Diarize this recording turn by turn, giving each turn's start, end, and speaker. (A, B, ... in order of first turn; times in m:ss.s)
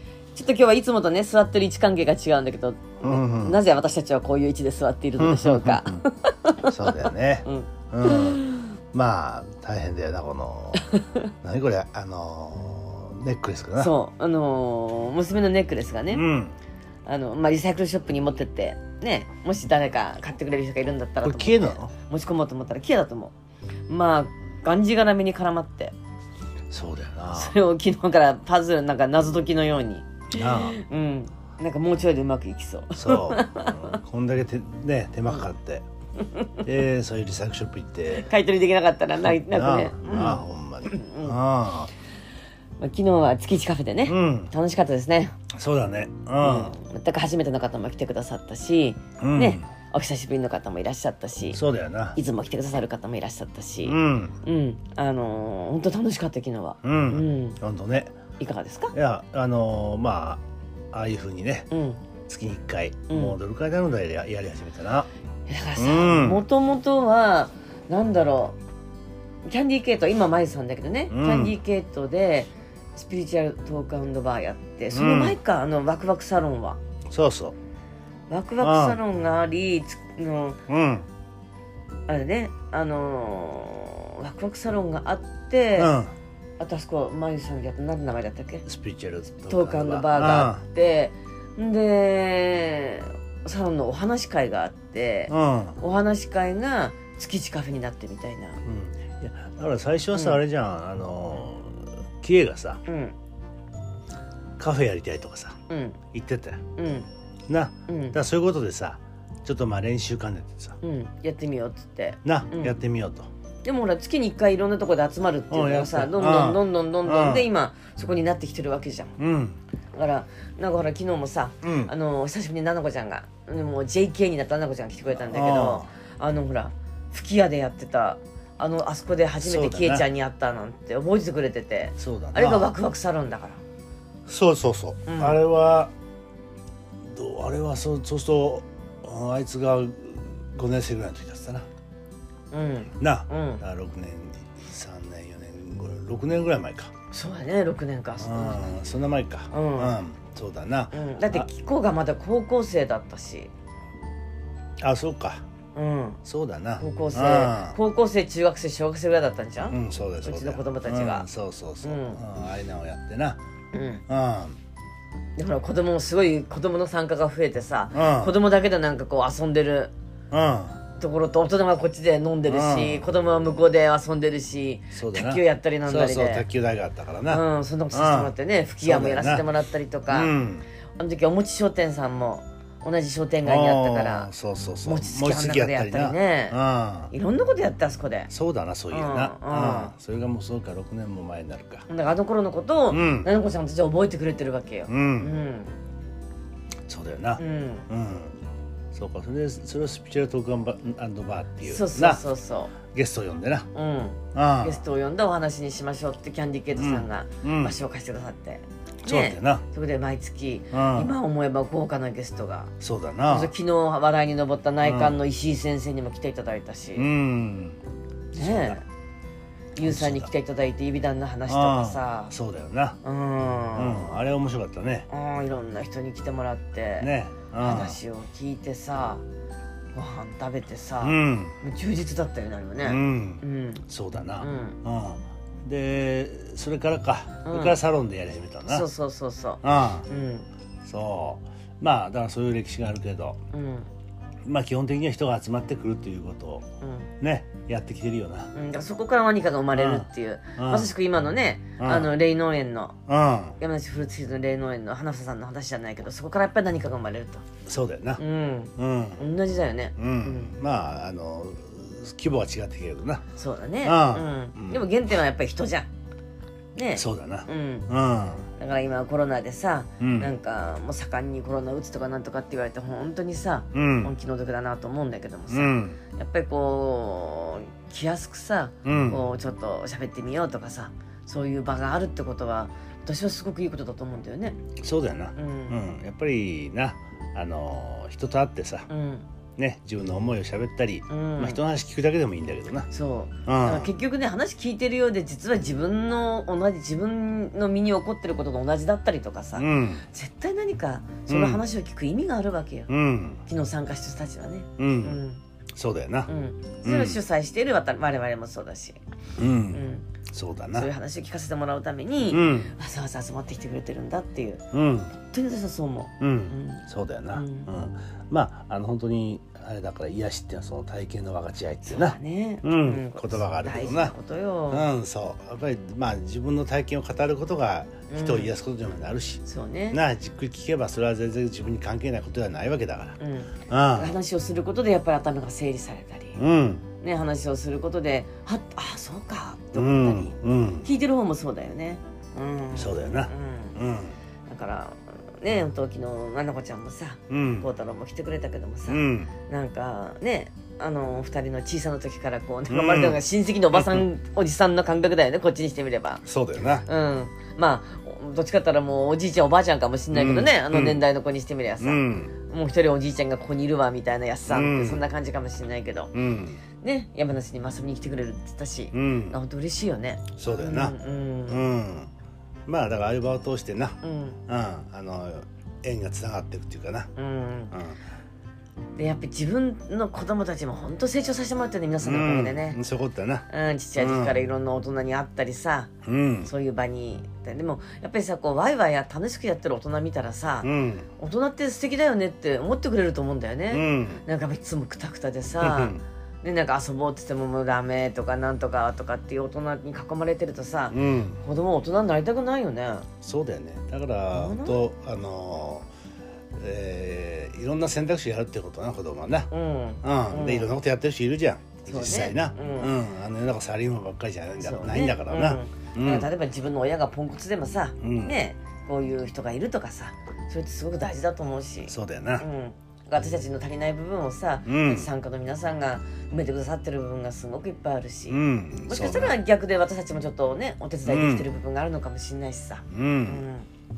0:00.4-0:08.7 A
0:03.0-0:03.6 B
0:05.2-0:06.0 B
0:06.6-0:10.9 B
0:10.9-0:11.2 A
0:11.4-0:13.9 B
0:13.8-0:16.2 A
0:16.1-0:16.6 B
0:17.1-0:23.3 A
0:21.2-0:21.9 B
0:23.9-0:25.9 A
0:26.7-0:27.6 B
0:27.3-0:34.0 A
0:30.3-0:30.8 B
0:33.0-0:35.8 B
0:36.2-0:36.6 A
0:36.6-0:38.3 B
0:38.1-0:41.4 A
0:39.5-0:41.9 B
0:42.8-0:45.4 A
0:44.1-0:44.5 B
0:45.5-0:46.7 B
0:46.4-0:51.6 A
0:49.2-0:49.6 B
0:51.5-0:52.2 B
0:52.2-0:57.6 A
0:53.8-0:54.4 B
0:56.8-0:58.2 B
0:58.4-0:59.0 A
0:58.9-1:01.7 B
1:01.7-1:02.0 A
1:02.3-1:05.1 B
1:03.1-1:03.4 A
1:05.5-1:08.6 A
1:05.8-1:06.4 B
1:09.5-1:16.8 A
1:11.1-1:11.6 B
1:14.9-1:15.4 B
1:17.1-1:17.6 B
1:18.3-1:20.6 A
1:18.6-1:19.0 B
1:20.7-1:21.1 B
1:22.1-1:25.9 A
1:25.8-1:26.1 B
1:26.6-1:28.6 A
1:28.7-1:30.6 B
1:29.5-1:38.6 A
1:35.3-1:35.8 B
1:38.6-1:42.8 B
1:40.1-1:40.4 A
1:42.9-1:43.2 A
1:44.6-1:45.6 B
1:45.7-1:46.0 A
1:46.1-1:46.6 B
1:46.8-1:47.1 A
1:47.5-1:50.8 B
1:47.9-1:48.2 A
1:50.8-1:52.8 A
1:52.2-1:53.3 B
1:53.6-1:59.2 A
1:55.5-1:57.5 B
1:59.2-1:59.6 B
2:00.0-2:13.6 A
2:01.6-2:01.9 B
2:05.1-2:05.9 B
2:09.4-2:10.0 B
2:12.0-2:12.7 B
2:14.3-2:15.9 B
2:15.1-2:15.4 A
2:17.0-2:21.7 B
2:22.5-2:23.6 A
2:23.0-2:26.9 B
2:27.1-2:28.8 A
2:28.2-2:31.5 B
2:29.5-2:30.0 A
2:30.9-2:33.5 A
2:34.8-2:35.4 B
2:35.8-2:36.2 A
2:36.2-2:37.8 B
2:36.8-2:41.3 A
2:39.7-2:43.4 B
2:41.8-2:42.2 A
2:43.7-2:44.0 A
2:44.1-2:44.6 B
2:45.4-2:49.9 A
2:47.9-2:48.3 B
2:50.3-2:50.8 B
2:51.0-2:56.5 A
2:52.5-2:53.1 B
2:54.9-2:59.5 B
2:57.3-3:00.3 A
3:00.1-3:00.7 B
3:01.0-3:04.3 A
3:03.4-3:07.1 B
3:04.8-3:06.6 A
3:07.1-3:08.3 A
3:08.3-3:11.9 B
3:08.9-3:09.9 A
3:11.9-3:15.8 A
3:12.9-3:13.3 B
3:14.9-3:15.3 B
3:16.9-3:18.4 B
3:17.4-3:17.9 A
3:18.9-3:22.2 B
3:21.6-3:22.7 A
3:22.9-3:23.7 B
3:23.7-3:32.7 A
3:24.3-3:24.8 B
3:26.8-3:27.8 B
3:29.0-3:29.6 B
3:30.7-3:31.2 B
3:32.8-3:33.5 B
3:33.3-3:37.1 A
3:34.8-3:35.2 B
3:37.0-3:37.8 B
3:38.3-3:38.8 B
3:38.4-3:38.8 A
3:39.8-3:42.3 A
3:39.8-3:40.3 B
3:41.5-3:43.0 B
3:43.0-3:44.2 A
3:43.8-3:45.1 B
3:45.1-3:49.2 A
3:47.0-3:48.0 B
3:49.9-3:53.8 A
3:51.0-3:51.6 B
3:52.8-3:58.9 B
3:54.4-3:54.8 A
3:57.4-3:57.8 A
3:58.7-4:00.5 A
3:59.6-4:00.1 B
4:00.8-4:03.4 B
4:03.5-4:03.9 A
4:04.4-4:06.6 B
4:06.8-4:07.1 A
4:07.2-4:08.5 B
4:08.5-4:13.0 A
4:09.8-4:10.9 B
4:11.8-4:12.1 B
4:13.1-4:13.6 B
4:13.6-4:17.4 A
4:17.7-4:18.2 B
4:18.2-4:20.6 A
4:18.8-4:19.2 B
4:20.0-4:23.2 B
4:23.4-4:25.9 A
4:23.8-4:24.9 B
4:26.8-4:27.9 A
4:27.0-4:28.5 B
4:28.6-4:44.6 A
4:30.0-4:30.3 B
4:33.7-4:34.1 B
4:35.5-4:36.0 B
4:38.8-4:39.2 B
4:44.8-4:48.9 B
4:45.4-4:45.8 A
4:48.9-4:49.3 A
4:49.6-4:52.9 B
4:51.1-4:51.6 A
4:52.9-5:02.9 A
4:53.5-4:53.9 B
4:59.6-5:00.0 B
5:01.3-5:01.6 B
5:02.9-5:03.4 B
5:03.5-5:05.4 A
5:04.8-5:05.2 B
5:05.8-5:06.3 B
5:06.3-5:09.0 A
5:06.8-5:07.2 B
5:09.4-5:10.9 B
5:09.7-5:10.1 A
5:10.7-5:14.6 A
5:12.3-5:12.7 B
5:14.7-5:15.1 B
5:15.3-5:17.7 A
5:16.2-5:24.2 B
5:21.8-5:24.9 A
5:24.7-5:34.2 B
5:28.1-5:28.5 A
5:29.4-5:30.0 A
5:33.2-5:36.4 A
5:36.4-5:36.9 B
5:37.0-5:43.8 A
5:39.7-5:40.9 B
5:42.8-5:44.2 B
5:44.5-5:56.2 A
5:47.3-5:47.7 B
5:48.9-5:49.3 B
5:52.7-5:53.2 B
5:53.7-5:54.0 B
5:56.3-5:56.9 B
5:56.8-6:06.1 A
6:00.1-6:01.0 B
6:01.8-6:02.4 B
6:04.5-6:05.1 B
6:06.1-6:06.6 B
6:06.8-6:11.7 A
6:08.9-6:09.4 B
6:10.4-6:12.1 B
6:12.7-6:17.1 B
6:14.0-6:14.4 A
6:17.2-6:17.8 A
6:17.7-6:18.0 B
6:19.0-6:22.8 A
6:22.0-6:24.4 B
6:23.5-6:25.9 A
6:26.0-6:26.5 B
6:26.4-6:43.1 A
6:30.6-6:31.1 B
6:33.7-6:34.2 B
6:35.6-6:36.0 B
6:40.9-6:41.4 B
6:43.2-6:45.9 B
6:44.3-6:44.8 A
6:46.6-6:49.5 B
6:49.5-6:50.7 A
6:50.0-6:56.3 B
6:51.9-6:52.9 A
6:54.6-7:13.7 A
6:58.0-6:58.4 B
7:01.9-7:02.5 B
7:04.7-7:05.1 B
7:08.3-7:09.4 B
7:11.1-7:11.5 B
7:12.9-7:13.5 B